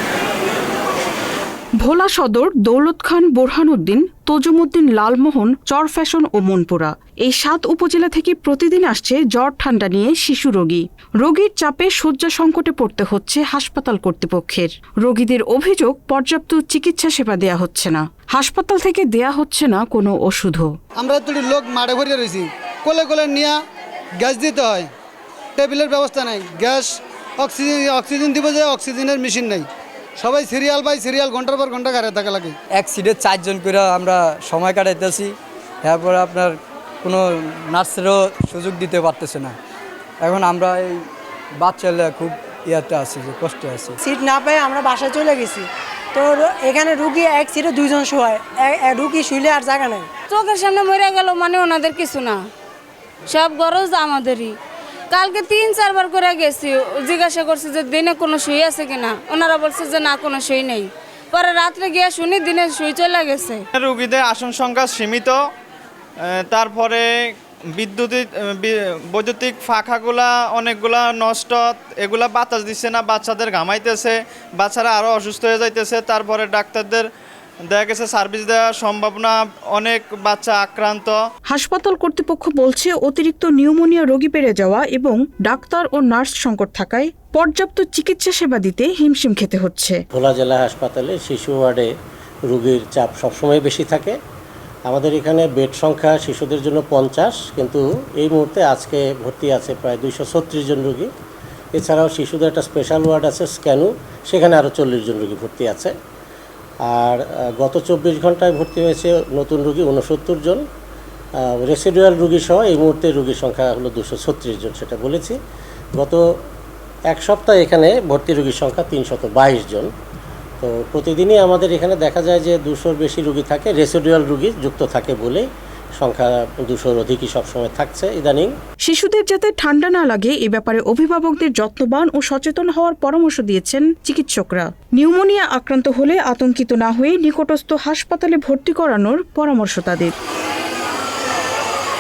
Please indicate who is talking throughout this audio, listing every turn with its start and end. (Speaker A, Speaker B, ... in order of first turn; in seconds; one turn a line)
Speaker A: 1.8-20.7
Speaker B: 21.0-23.6
Speaker B: 24.2-24.9
Speaker B: 25.6-32.5
Speaker C: 32.7-39.6
Speaker C: 40.2-41.1
Speaker C: 41.6-44.0
Speaker D: 44.0-50.1
Speaker E: 50.3-52.5
Speaker E: 53.3-54.5
Speaker E: 55.1-63.6
Speaker F: 63.8-65.4
Speaker F: 66.5-67.1
Speaker F: 67.8-77.1
Speaker F: 77.7-81.2
Speaker A: 81.5-90.0
Speaker G: 90.1-91.9
Speaker G: 92.5-94.2
Speaker G: 94.9-101.1
Speaker G: 101.8-105.9
Speaker G: 106.9-110.6
Speaker G: 111.4-115.4
Speaker G: 116.0-116.2
Speaker G: 117.1-119.9
Speaker G: 120.6-125.5
Speaker G: 126.0-128.5
Speaker A: 128.8-140.2